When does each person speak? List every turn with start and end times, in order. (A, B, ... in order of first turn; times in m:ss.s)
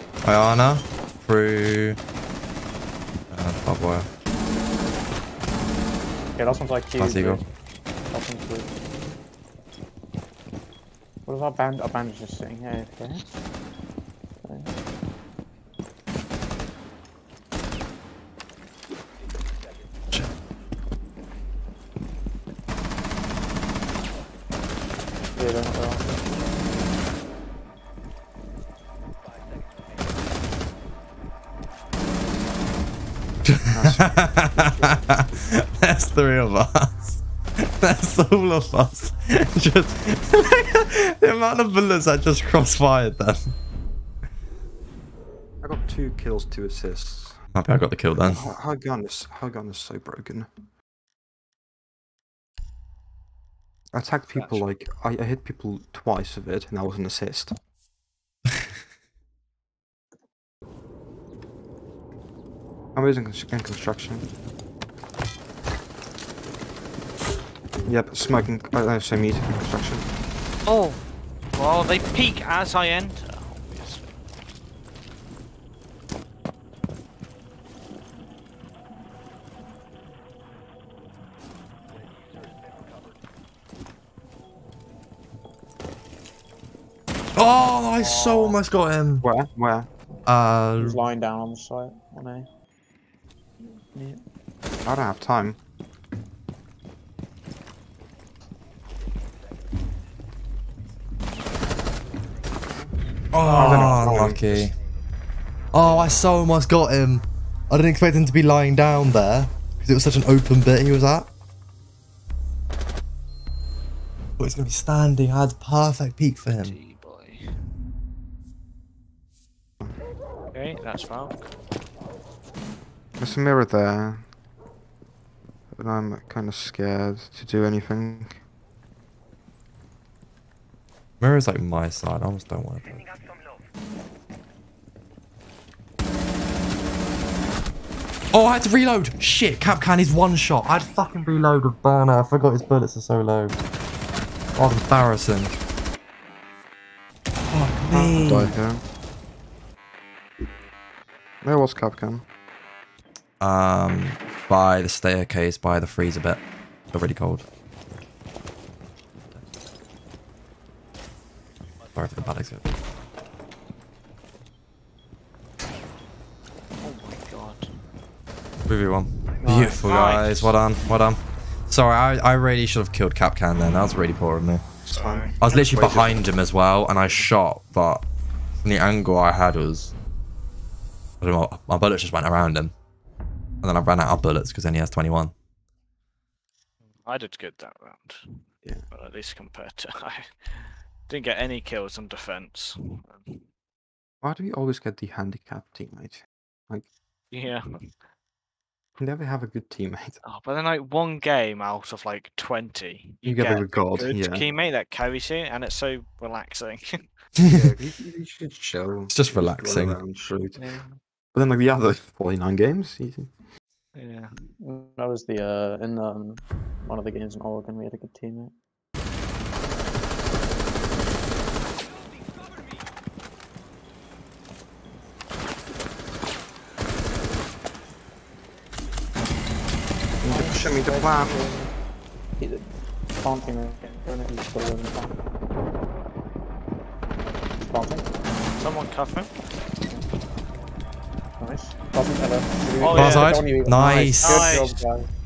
0:00.2-0:02.0 A
0:03.3-0:04.1 A
0:06.4-0:07.4 B
0:06.9-0:07.4 A
0:08.1-0:08.7 B
0:11.2-0:13.4 B
0:14.4-0:14.7 B
0:25.4-0:26.3 B
0:33.4-0:43.5 A
0:33.7-0:35.0 C
0:45.6-0:47.5 C
0:47.5-0:48.4 A
0:48.2-0:50.5 C
0:53.9-0:57.6 C
0:54.3-0:54.6 D
1:02.9-1:04.3 C
1:07.8-1:10.1 C
1:10.6-1:11.0 D
1:11.5-1:14.1 D
1:27.4-1:29.2 A
1:28.0-1:28.6 D
1:29.2-1:29.9 C
1:30.2-1:31.0 A
1:30.8-1:32.5 B
1:33.6-1:34.2 B
1:34.8-1:35.6 C
1:43.3-1:44.7 A
1:43.4-1:44.1 B
1:43.4-1:44.5 C
1:45.7-1:51.3 A
1:54.4-1:56.8 A
1:56.6-1:57.5 D
2:00.5-2:01.5 D
2:03.2-2:04.3 C
2:05.7-2:08.4 C
2:11.2-2:13.1 A
2:18.3-2:23.6 A
2:24.5-2:25.6 A
2:27.5-2:28.5 A
2:27.9-2:28.8 C
2:31.4-2:32.2 C
2:33.4-2:37.4 A
2:41.9-2:42.7 A
2:46.8-2:47.7 D
2:48.7-2:54.6 A
2:49.4-2:49.8 C
2:49.4-2:50.6 D
2:54.8-2:55.3 D
2:54.9-2:56.2 C
2:55.4-2:58.0 A
2:58.6-2:59.9 A
3:01.2-3:02.7 A
3:03.6-3:05.3 A
3:07.0-3:13.5 D
3:14.2-3:16.9 C
3:17.3-3:18.0 D
3:19.0-3:20.2 C
3:20.2-3:27.1 D
3:23.2-3:24.4 C
3:27.5-3:30.6 C
3:29.1-3:30.0 A
3:30.6-3:31.0 D
3:31.3-3:33.3 C
3:33.9-3:34.5 D
3:34.6-3:38.5 B
3:50.2-3:51.4 C
3:50.3-3:51.7 B
3:52.4-3:55.1 B
3:57.6-3:58.0 B
3:58.6-3:59.3 D
4:01.4-4:05.1 B
4:02.8-4:03.4 D
4:02.9-4:04.4 A
4:04.2-4:04.8 D